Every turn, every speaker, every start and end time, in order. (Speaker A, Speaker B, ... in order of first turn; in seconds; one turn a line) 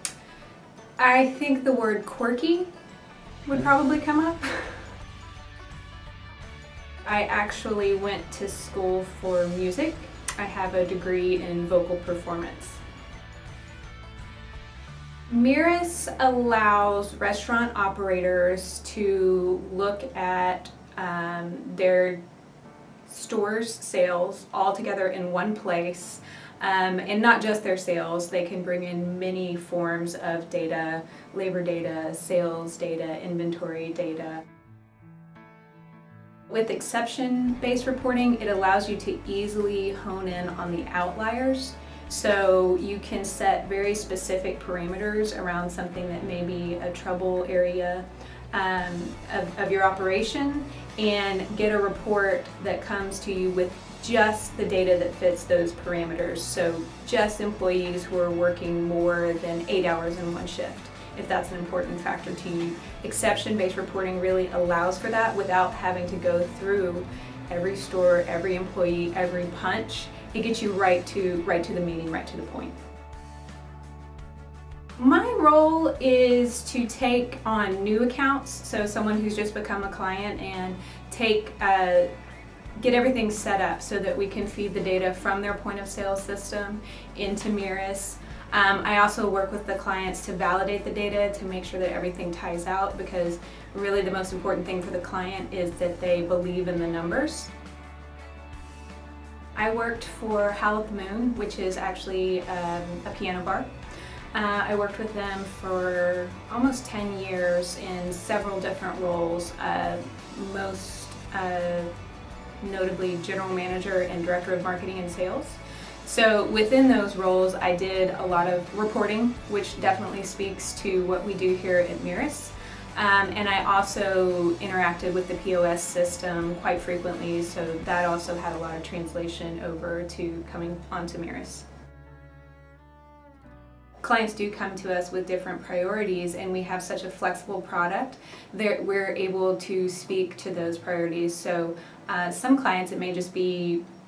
Speaker A: 1.0-2.7
Speaker A: 3.4-4.8
Speaker A: 7.0-12.8
Speaker A: 15.3-22.2
Speaker A: 23.1-34.4
Speaker A: 36.5-72.7
Speaker A: 75.0-82.1
Speaker A: 82.8-97.5
Speaker A: 99.5-103.7
Speaker A: 104.3-111.9
Speaker A: 112.6-131.6
Speaker A: 134.0-143.8